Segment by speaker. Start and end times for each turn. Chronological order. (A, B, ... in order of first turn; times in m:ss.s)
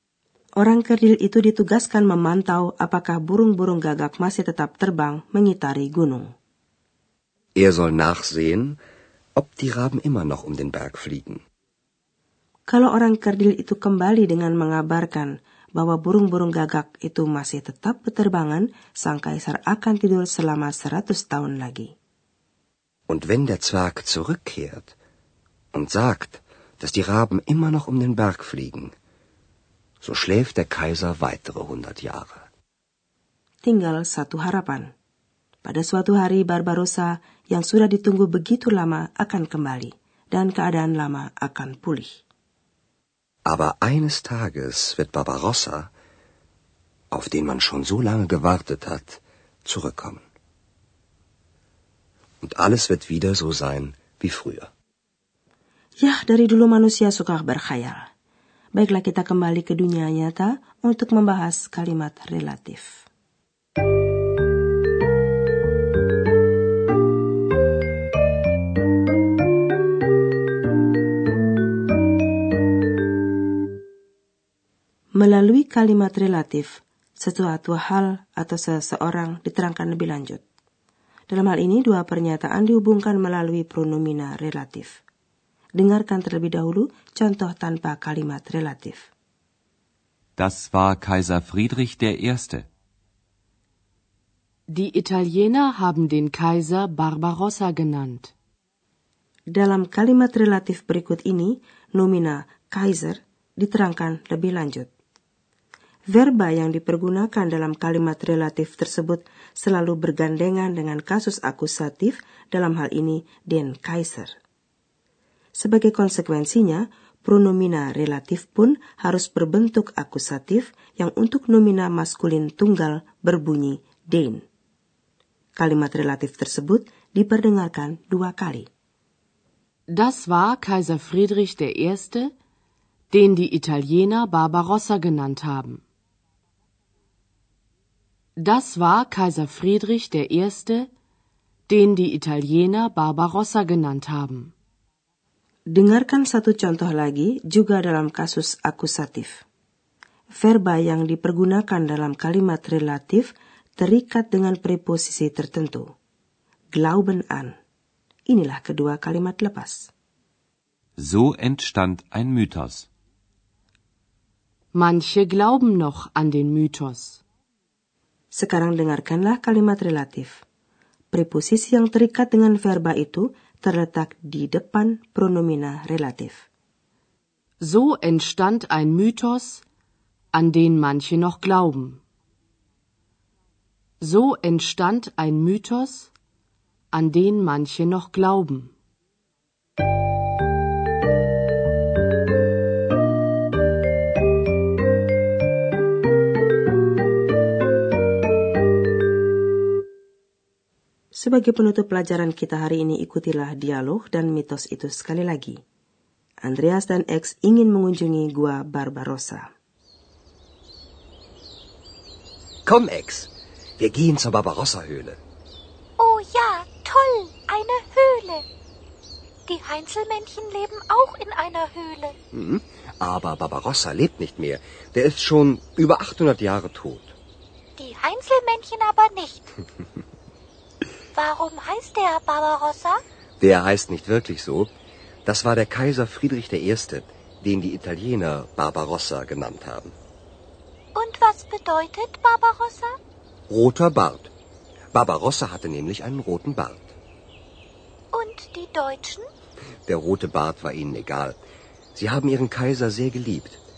0:00.6-0:06.3 A
0:07.6-0:08.8 B
0:09.4-0:11.4 B
0:12.7-0:21.9 A
0:23.1-0:25.0 B
0:25.7-0:28.9 B
0:30.0-0:32.5 B
0:33.6-0:34.9 A
0:35.6-0:42.2 A
0:43.5-0:45.9 B
0:47.1-0:50.2 B
0:52.4-0:54.7 B
0:56.0-0:58.1 A
0:58.8-1:03.1 A
1:15.2-1:20.4 A
1:21.3-1:25.0 A
1:25.8-1:29.1 A
1:30.4-1:32.7 C
1:34.7-1:38.3 D
1:39.5-1:44.9 A
1:46.1-1:54.3 A
1:55.6-2:04.4 A
2:05.6-2:08.7 A
2:09.9-2:12.3 D
2:13.1-2:15.8 D
2:18.4-2:20.9 D
2:21.7-2:24.5 D
2:25.7-2:29.4 A
2:30.4-2:35.9 A
2:36.7-2:37.6 A
2:38.3-2:39.9 A
2:41.0-2:42.9 C
2:44.7-2:47.2 D
2:48.3-2:50.4 A
2:51.1-2:56.4 A
2:57.6-2:59.6 D
3:00.3-3:02.0 D
3:04.0-3:06.1 D
3:06.9-3:08.7 D
3:21.2-3:25.6 A
3:26.4-3:29.5 A
3:32.7-3:35.2 B
3:36.0-3:38.4 E
3:39.5-3:42.2 E
3:42.3-3:47.2 B
3:47.8-3:49.5 E
3:51.2-3:53.0 E
3:53.4-3:54.7 B
3:55.2-4:00.0 B
4:01.0-4:03.0 E
4:03.5-4:04.3 B
4:04.9-4:07.0 B
4:08.1-4:09.3 E
4:09.9-4:11.4 B
4:12.0-4:13.6 B